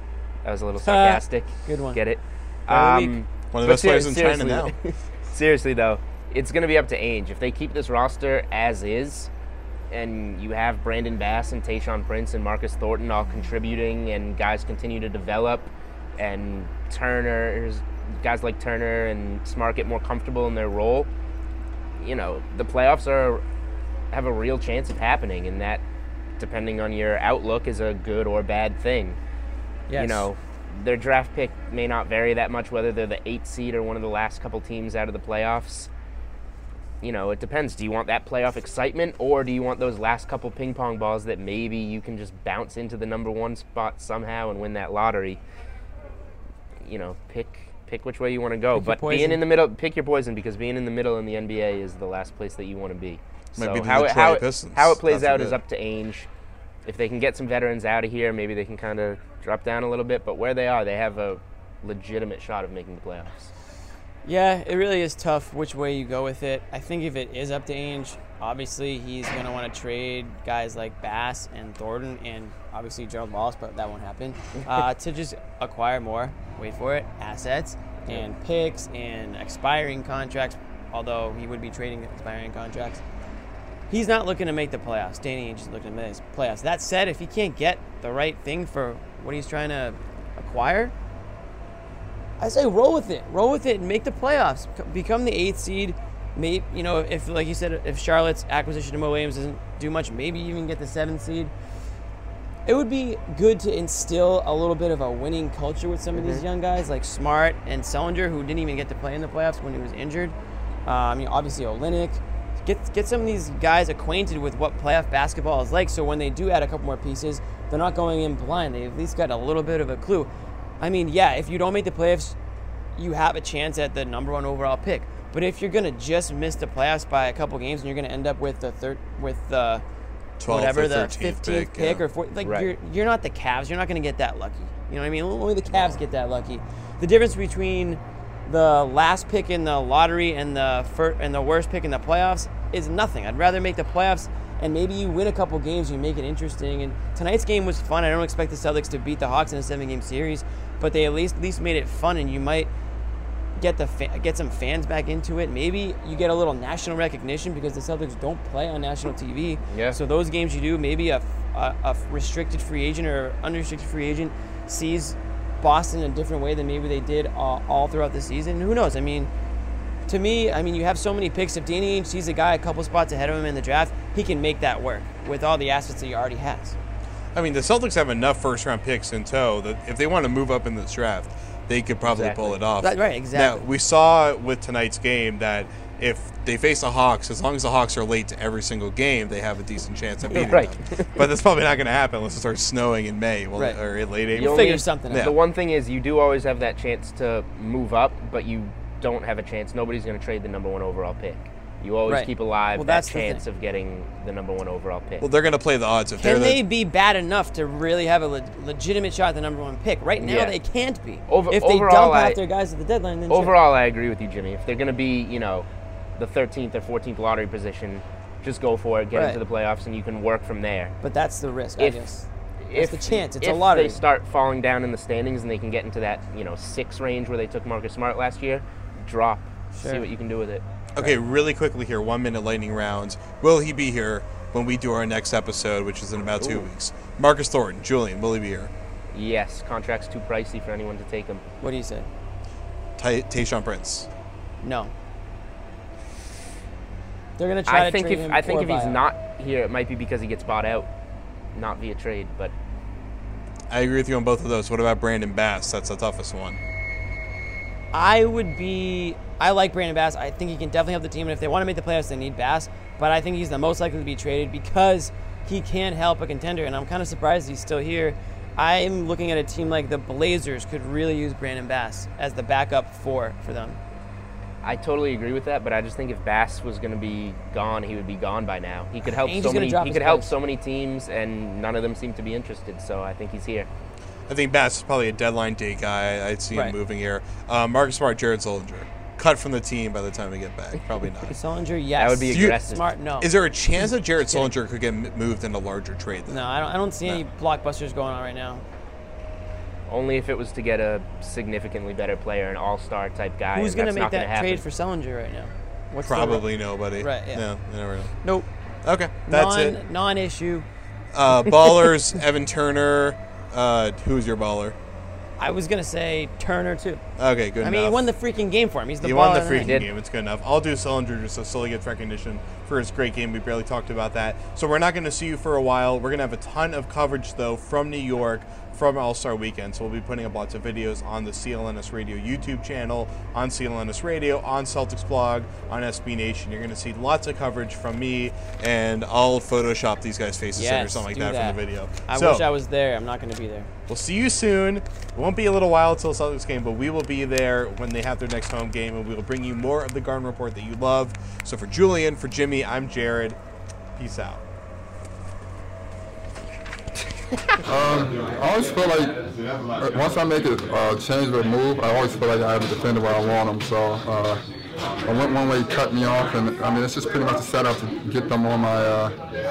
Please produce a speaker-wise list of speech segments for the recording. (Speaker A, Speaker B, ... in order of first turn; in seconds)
Speaker A: 0.4-9.3, 9.9-21.1, 22.0-23.4, 24.1-25.8, 26.4-29.2, 29.9-35.9, 37.0-45.4, 46.8-56.3, 56.9-63.5, 106.1-106.4, 132.4-132.7, 135.7-136.0, 159.7-160.0, 182.0-182.6, 190.3-191.1, 194.3-205.3, 210.2-210.6, 211.3-212.4, 213.3-220.9, 221.8-222.1, 222.6-230.6, 236.4-236.7, 239.1-241.4, 247.7-250.9, 251.5-252.5, 274.6-283.7, 292.0-292.9, 299.9-304.6, 319.6-319.9
Speaker B: 0.8-2.0, 2.7-3.1, 29.9-30.3, 48.8-49.4, 64.2-83.0, 83.9-90.9, 92.4-101.5, 102.7-120.3, 120.8-122.4, 123.0-129.8, 130.5-152.7, 153.6-169.3, 170.1-176.8, 182.8-183.6, 193.6-193.8, 194.3-195.3, 202.1-203.4, 206.2-213.6, 219.1-219.4, 221.0-224.0, 229.8-230.1, 241.6-242.1, 244.6-244.9, 247.4-249.0, 257.9-273.8, 279.1-280.3, 291.3-294.5, 296.3-298.6, 303.5-307.7, 308.2-308.5, 309.3-310.7, 315.4-317.0, 317.6-319.8, 340.5-343.7
Speaker C: 3.5-4.7, 53.6-55.6, 130.4-132.1, 177.3-195.3, 205.2-206.6, 231.0-238.7, 243.0-244.1, 253.7-256.6, 284.3-291.4, 292.3-292.6, 293.2-296.5, 306.1-308.1, 308.9-309.8, 311.1-314.8, 317.2-318.1, 319.0-342.5, 343.9-353.4, 354.0-354.4
Speaker D: 357.7-359.2, 359.8-364.4, 365.1-369.1